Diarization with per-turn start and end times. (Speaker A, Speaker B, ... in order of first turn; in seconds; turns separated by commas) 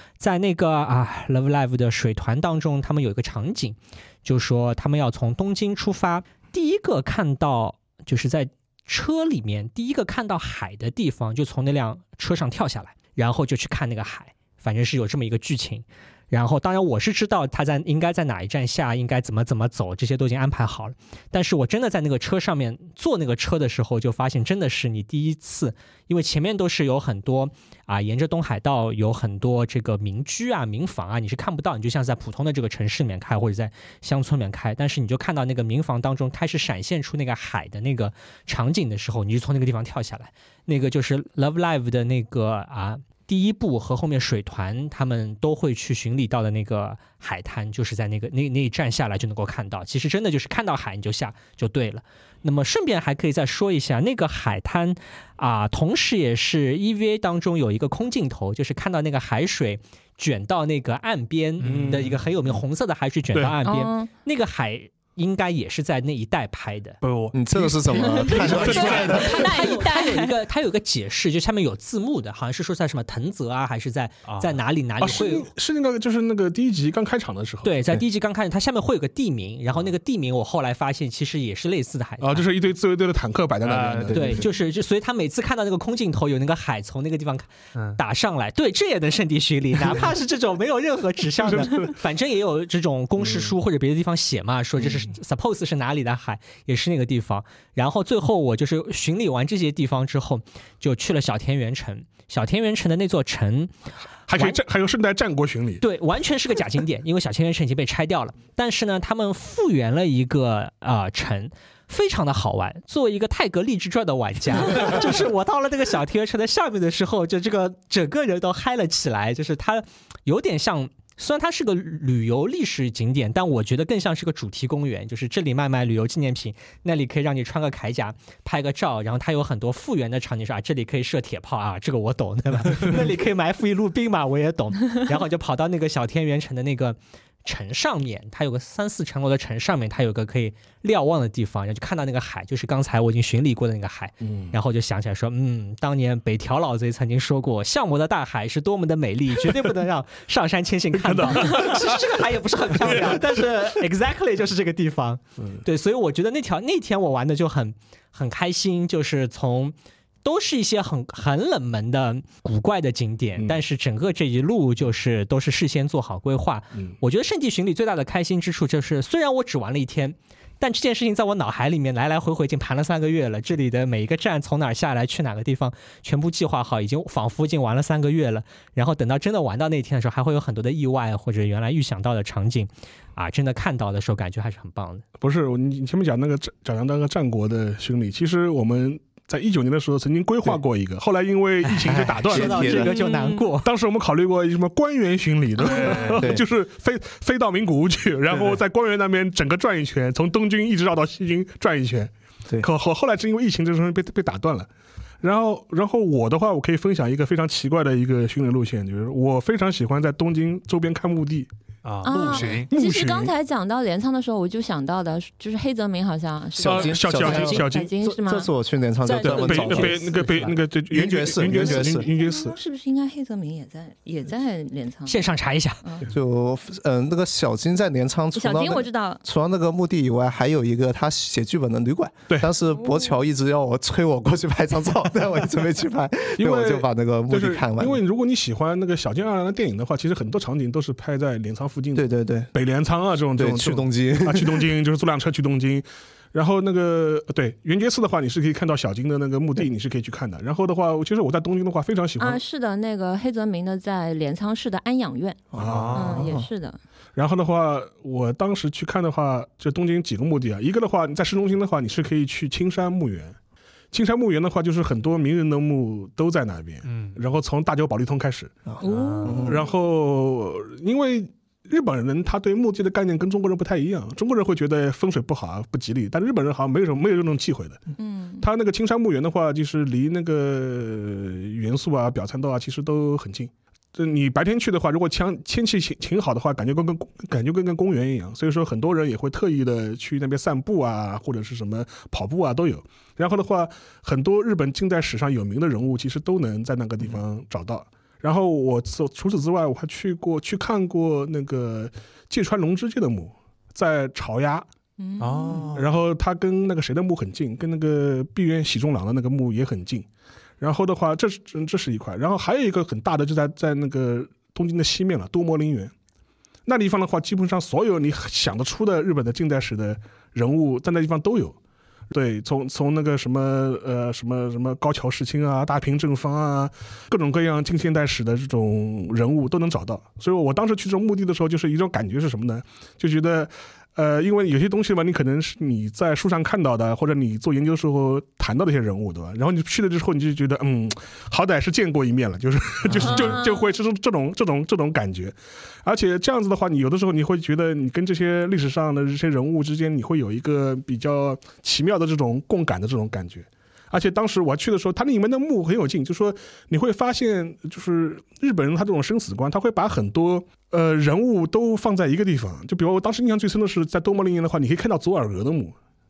Speaker A: 0.2-67.0, Speaker B: 61.6-62.1, Speaker C: 61.6-62.6, Speaker D: 63.6-64.1, Speaker B: 67.0-68.7, Speaker E: 67.3-69.5, Speaker D: 68.0-70.3, Speaker C: 68.2-69.2, Speaker A: 68.3-75.5, Speaker B: 74.2-74.6, Speaker C: 75.0-77.8, Speaker A: 77.6-82.4, Speaker C: 82.2-84.5, Speaker B: 83.6-84.5, Speaker A: 84.1-103.7, Speaker B: 87.7-88.0, Speaker C: 91.4-92.0, Speaker C: 93.2-93.5, Speaker C: 104.3-105.8, Speaker A: 104.3-104.6, Speaker A: 105.8-185.0, Speaker C: 144.2-144.6, Speaker C: 150.9-153.8, Speaker C: 185.2-192.9, Speaker A: 191.7-193.7, Speaker E: 191.7-193.0, Speaker D: 192.8-193.5, Speaker C: 193.6-204.7, Speaker D: 195.6-196.1, Speaker B: 195.6-196.3, Speaker E: 196.2-196.4, Speaker B: 198.3-198.6, Speaker C: 205.2-211.5, Speaker B: 211.8-212.7, Speaker D: 212.0-218.5, Speaker C: 212.1-213.3, Speaker E: 216.6-222.1, Speaker C: 216.6-217.9, Speaker A: 219.0-220.3, Speaker C: 219.2-222.6, Speaker D: 221.5-225.2, Speaker A: 225.1-225.8, Speaker E: 226.1-238.0, Speaker D: 228.3-229.2, Speaker D: 232.7-233.2, Speaker C: 236.4-252.4, Speaker E: 241.9-242.5, Speaker E: 243.3-244.7, Speaker D: 252.2-256.8, Speaker E: 255.5-256.4, Speaker C: 255.6-256.2, Speaker B: 255.6-256.3, Speaker C: 257.1-263.4, Speaker C: 263.9-268.5, Speaker B: 266.8-267.2, Speaker E: 268.7-269.6, Speaker D: 268.8-269.5, Speaker B: 268.8-269.5, Speaker C: 269.4-277.8, Speaker D: 278.0-278.4, Speaker C: 278.4-304.6, Speaker D: 305.0-305.7, Speaker B: 305.2-305.9, Speaker C: 305.7-310.1, Speaker C: 310.6-315.9, Speaker C: 316.6-321.6, Speaker C: 322.1-365.7, Speaker B: 342.9-343.4, Speaker D: 343.0-343.7